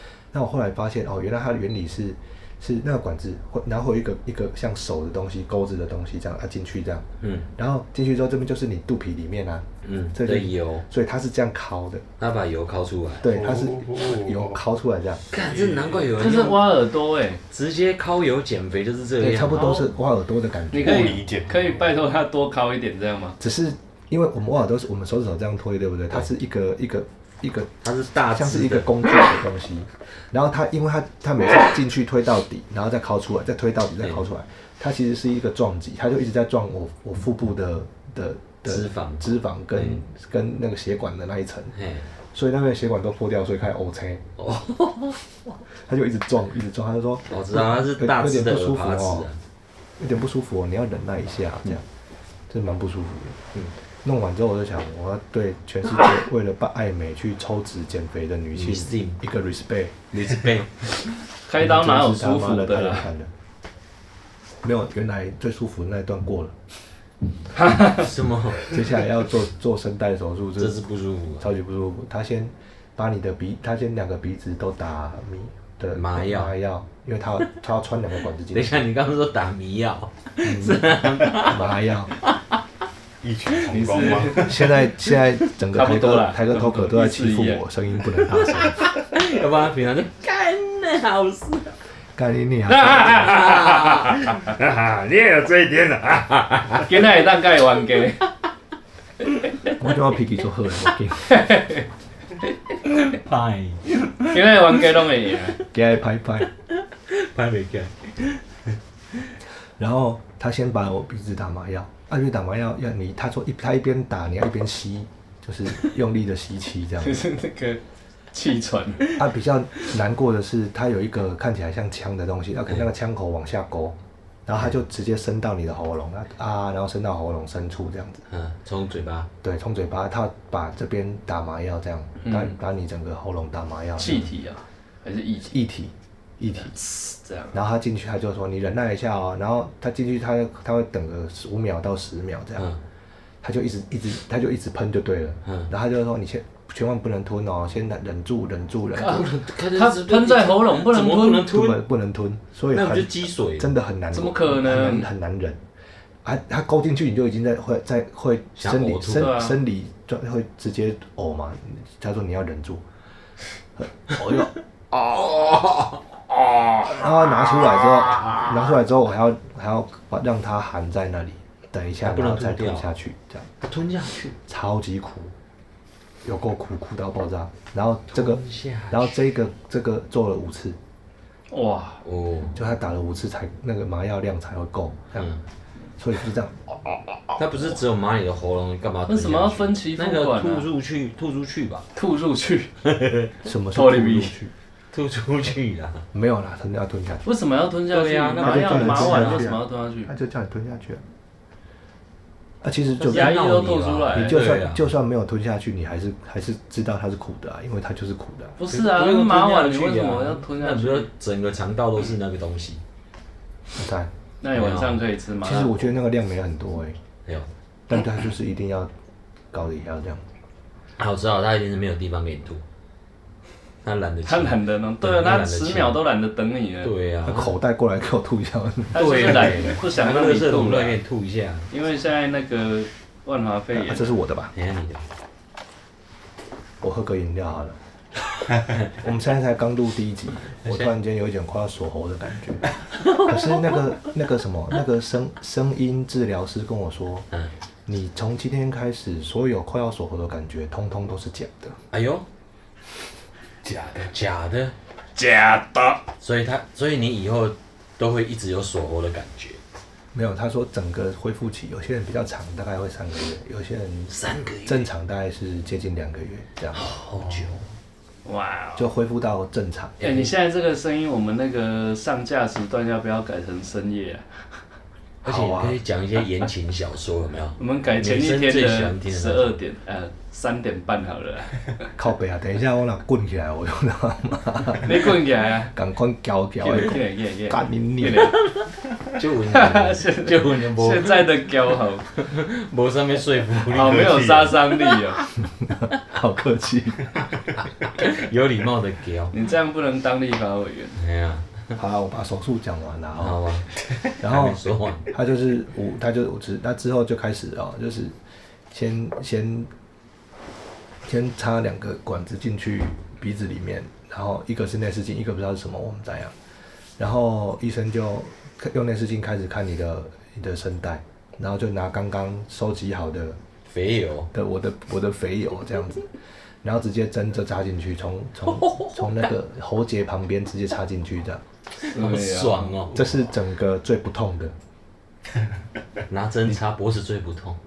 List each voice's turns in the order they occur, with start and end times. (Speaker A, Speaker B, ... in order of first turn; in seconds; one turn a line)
Speaker A: 0.3-12.0
Speaker B: 7.2-7.5
Speaker B: 9.8-10.8
Speaker B: 12.2-13.3
Speaker A: 13.2-15.3
Speaker C: 13.3-14.5
Speaker B: 15.3-16.8
Speaker C: 15.3-16.1
Speaker D: 16.1-17.4
Speaker B: 17.5-19.7
Speaker A: 19.2-21.2
Speaker D: 19.5-19.9
Speaker D: 20.7-23.4
Speaker C: 20.8-21.9
Speaker A: 23.4-27.7
Speaker B: 27.8-29.2
Speaker A: 28.3-41.7
Speaker B: 38.6-40.0
Speaker B: 41.7-42.0
Speaker A: 42.3-44.2
Speaker B: 44.4-45.2
Speaker A: 45.8-49.3
Speaker B: 47.3-49.4
Speaker A: 50.0-51.8
Speaker A: 52.5-53.4
Speaker A: 54.0-60.0
Speaker B: 58.5-59.2
Speaker B: 60.1-61.0
Speaker D: 61.5-63.1
Speaker A: 61.6-63.3
Speaker A: 64.6-66.6
Speaker D: 67.6-68.0
Speaker B: 67.8-68.8
Speaker A: 68.7-70.8
Speaker B: 70.6-71.5
Speaker A: 71.4-78.8
Speaker B: 75.9-76.5
Speaker B: 78.5-82.6
Speaker A: 80.4-82.1
Speaker C: 83.2-84.7
Speaker D: 83.7-84.7
Speaker A: 84.3-88.9
Speaker D: 85.7-87.6
Speaker B: 88.4-91.7
Speaker A: 92.2-93.4
Speaker D: 92.9-94.2
Speaker B: 92.9-96.9
Speaker D: 96.8-98.2
Speaker A: 99.8-101.5
Speaker D: 101.3-101.8
Speaker B: 102.8-105.0
Speaker D: 104.3-105.6
Speaker A: 105.7-106.5
Speaker B: 107.1-108.4
Speaker A: 109.8-117.3
Speaker D: 117.0-117.8
Speaker D: 118.3-119.2
Speaker A: 119.2-128.2
Speaker B: 128.3-129.3
Speaker A: 129.4-134.3
Speaker D: 132.2-132.5
Speaker D: 134.0-135.5
Speaker A: 135.5-136.7
Speaker D: 136.5-137.6
Speaker A: 137.5-142.7
Speaker A: 143.4-149.3
Speaker B: 149.0-151.8
Speaker D: 149.7-151.5
Speaker A: 151.5-155.6
Speaker B: 152.7-153.7
Speaker D: 154.1-155.1
Speaker A: 156.2-162.8
Speaker B: 158.6-159.4
Speaker D: 159.1-159.6
Speaker A: 163.8-164.5
Speaker B: 165.1-166.0
Speaker B: 166.5-166.9
Speaker A: 166.8-173.5
Speaker B: 167.9-168.5
Speaker B: 172.0-172.9
Speaker B: 173.6-174.4
Speaker A: 174.5-175.3
Speaker A: 176.2-180.8
Speaker B: 178.1-179.1
Speaker D: 181.5-182.0
Speaker B: 182.0-182.6
Speaker A: 182.5-185.3
Speaker B: 185.1-185.4
Speaker A: 186.0-186.6
Speaker B: 187.3-191.9
Speaker D: 189.1-190.7
Speaker D: 191.9-192.7
Speaker B: 192.8-193.4
Speaker A: 193.4-194.5
Speaker D: 193.7-194.3
Speaker B: 194.9-196.0
Speaker A: 196.1-197.2
Speaker D: 197.2-200.1
Speaker B: 197.9-199.6
Speaker A: 198.4-201.0
Speaker A: 202.6-203.4
Speaker B: 203.0-204.8
Speaker D: 203.0-204.4
Speaker A: 204.1-208.6
Speaker D: 208.6-211.1
Speaker B: 208.7-212.8
Speaker A: 213.7-214.1
Speaker D: 214.4-215.8
Speaker B: 214.5-215.0
Speaker A: 215.4-217.0
Speaker A: 217.9-218.9
Speaker A: 219.5-220.3
Speaker B: 221.0-222.6
Speaker B: 223.8-226.0
Speaker D: 224.2-226.9
Speaker B: 226.8-227.5
Speaker A: 227.2-229.5
Speaker D: 228.9-231.0
Speaker B: 228.9-231.7
Speaker D: 231.7-234.1
Speaker A: 233.7-234.5
Speaker B: 234.5-235.0
Speaker A: 236.8-237.8
Speaker B: 238.6-238.9
Speaker A: 238.9-247.2
Speaker B: 240.6-240.9
Speaker B: 243.0-243.8
Speaker A: 247.8-251.8
Speaker B: 251.9-252.2
Speaker B: 253.6-254.7
Speaker D: 255.2-256.0
Speaker B: 256.2-259.6
Speaker A: 260.1-266.9
Speaker B: 264.1-264.9
Speaker B: 266.7-267.6
Speaker D: 268.2-268.9
Speaker A: 268.8-270.0
Speaker B: 270.0-270.3
Speaker D: 270.0-274.2
Speaker A: 275.2-275.8
Speaker B: 275.2-279.6
Speaker D: 277.6-281.6
Speaker A: 281.9-285.1
Speaker D: 284.8-285.7
Speaker A: 285.7-288.3
Speaker D: 286.6-288.3
Speaker B: 288.1-291.4
Speaker D: 289.5-292.1
Speaker B: 292.1-294.9
Speaker D: 293.7-295.2
Speaker C: 293.7-294.4
Speaker A: 295.6-297.2
Speaker B: 297.6-299.3
Speaker D: 299.3-301.0
Speaker B: 301.0-301.6
Speaker A: 301.8-303.4
Speaker B: 303.2-305.1
Speaker A: 304.2-308.1
Speaker A: 308.7-309.7
Speaker A: 311.0-316.3
Speaker A: 317.0-323.4
Speaker B: 323.7-324.3
Speaker A: 324.3-326.0
Speaker A: 326.6-331.4
Speaker B: 328.5-329.3
Speaker B: 331.8-333.2
Speaker D: 331.9-332.8
Speaker A: 332.9-334.5
Speaker B: 336.1-337.6